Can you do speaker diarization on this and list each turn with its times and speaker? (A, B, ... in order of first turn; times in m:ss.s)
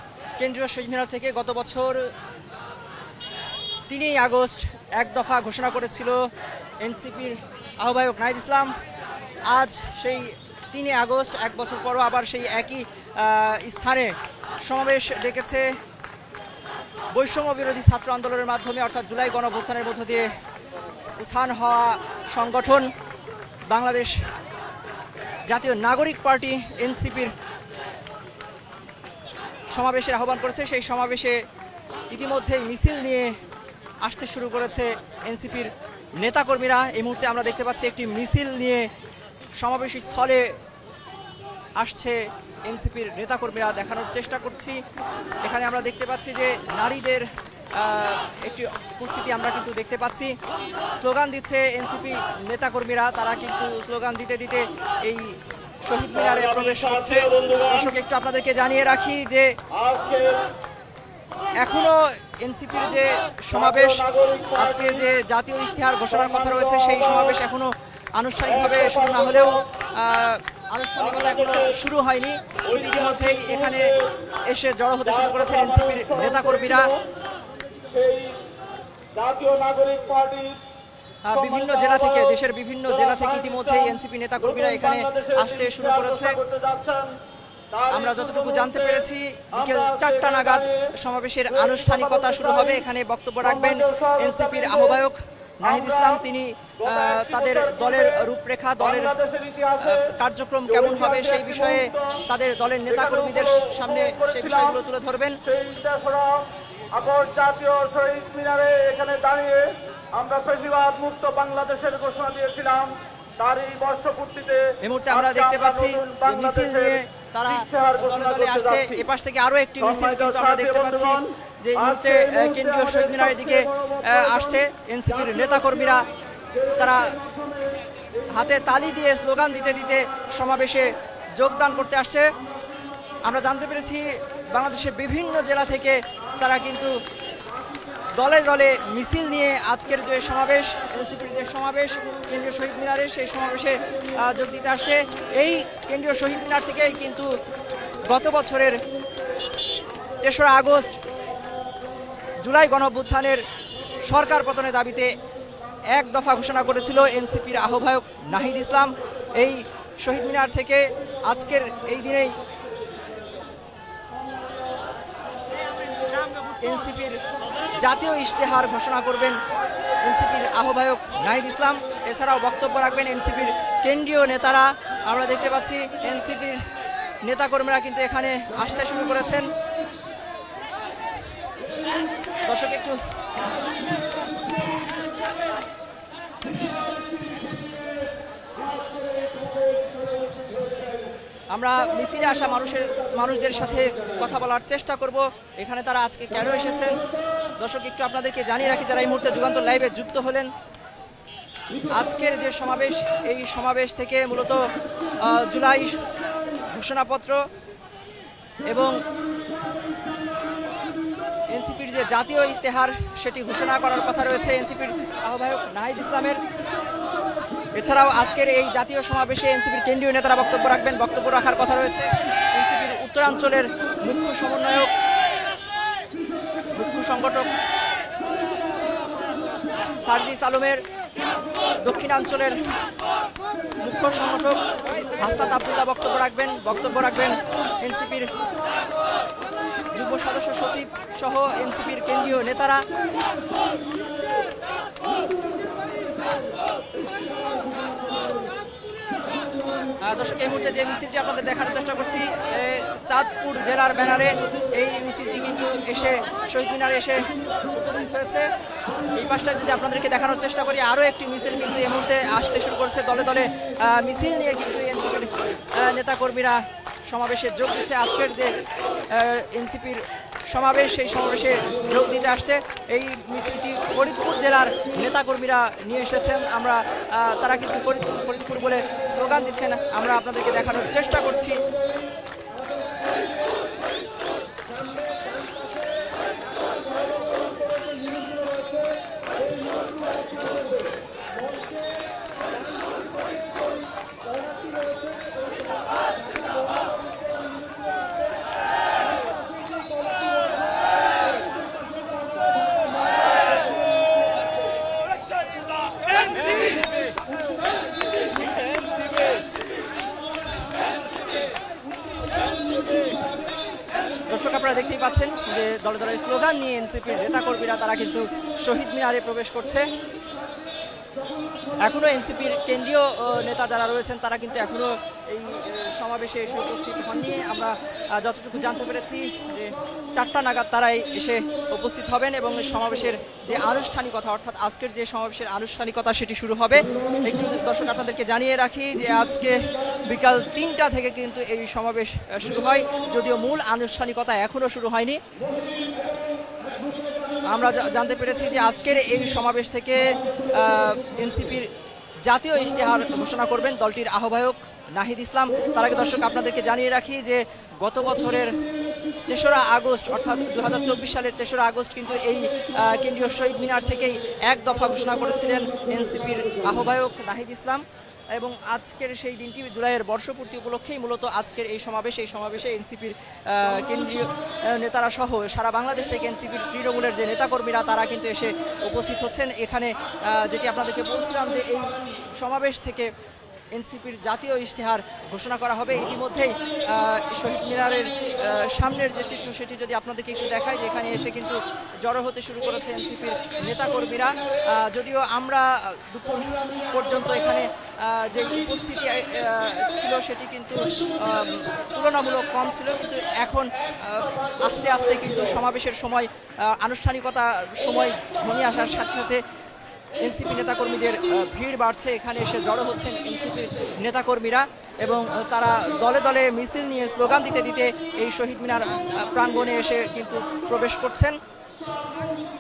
0:00.4-0:02.0 A
0:03.9-0:06.2 A
0:06.8-0:08.7 A
0:09.5-0:14.1 A
0:14.6-0:15.7 A
0:17.1-0:20.3 A
0:21.2-0:22.9 A
0:23.7-0:24.1 A
0:25.5-0:27.3 A
0:29.7-0:31.4 A
0:32.1-0:33.3 A
0:34.0-0:38.9 A
0:39.6-0:40.5 A
0:41.8-0:44.8 A
0:45.4-0:50.3 A
0:51.0-0:59.5 A
0:56.1-0:57.9 B
0:59.7-1:00.4 B
1:01.6-1:04.0 A
1:03.5-1:05.0 B
1:04.6-1:13.9 A
1:06.1-1:07.4 B
1:08.5-1:09.6 B
1:11.0-1:11.8 B
1:12.7-1:14.0 B
1:14.5-1:16.9 A
1:15.1-1:17.0 B
1:17.9-1:18.4 B
1:19.2-1:20.6 B
1:21.2-1:26.4 A
1:21.3-1:27.1 B
1:27.7-1:29.0 B
1:27.9-1:39.1 A
1:29.6-1:30.8 B
1:31.5-1:32.8 B
1:33.4-1:35.0 B
1:35.6-1:36.2 B
1:36.8-1:38.2 B
1:38.8-1:40.1 B
1:39.8-1:45.4 A
1:40.7-1:42.2 B
1:42.9-1:44.8 B
1:45.4-1:59.0 B
1:54.8-2:06.1 A
1:59.8-2:01.2 B
2:01.8-2:04.6 B
2:05.1-2:06.0 B
2:06.8-2:07.2 A
2:08.3-2:12.3 A
2:13.2-2:16.9 A
2:18.2-2:27.3 A
2:28.1-2:28.8 A
2:30.2-2:31.0 A
2:32.4-2:33.4 A
2:34.0-2:35.2 A
2:35.9-2:42.3 A
2:46.6-2:47.2 A
2:47.7-2:49.4 A
2:50.0-2:56.6 A
2:57.2-2:59.5 A
3:02.4-3:03.0 A
3:11.5-3:17.0 A
3:17.6-3:20.5 A
3:21.9-3:24.6 A
3:25.2-3:26.0 A
3:26.7-3:27.4 A
3:28.6-3:29.0 A
3:31.5-3:36.4 A
3:37.7-3:44.9 A
3:46.7-3:47.5 A
3:50.0-3:50.8 A
3:51.8-3:52.6 A
3:53.8-3:54.6 A
3:55.2-3:58.3 A
3:59.9-4:02.8 A
4:10.0-4:18.4 A
4:19.1-4:28.5 A
4:29.1-4:41.6 A
4:48.2-4:48.7 B
5:14.3-5:19.9 A
5:21.8-5:45.2 A
5:47.4-5:51.7 A
5:52.2-5:58.6 A
5:59.3-6:07.8 A
6:08.3-6:23.1 A
6:23.7-6:49.4 A
6:50.2-7:01.4 A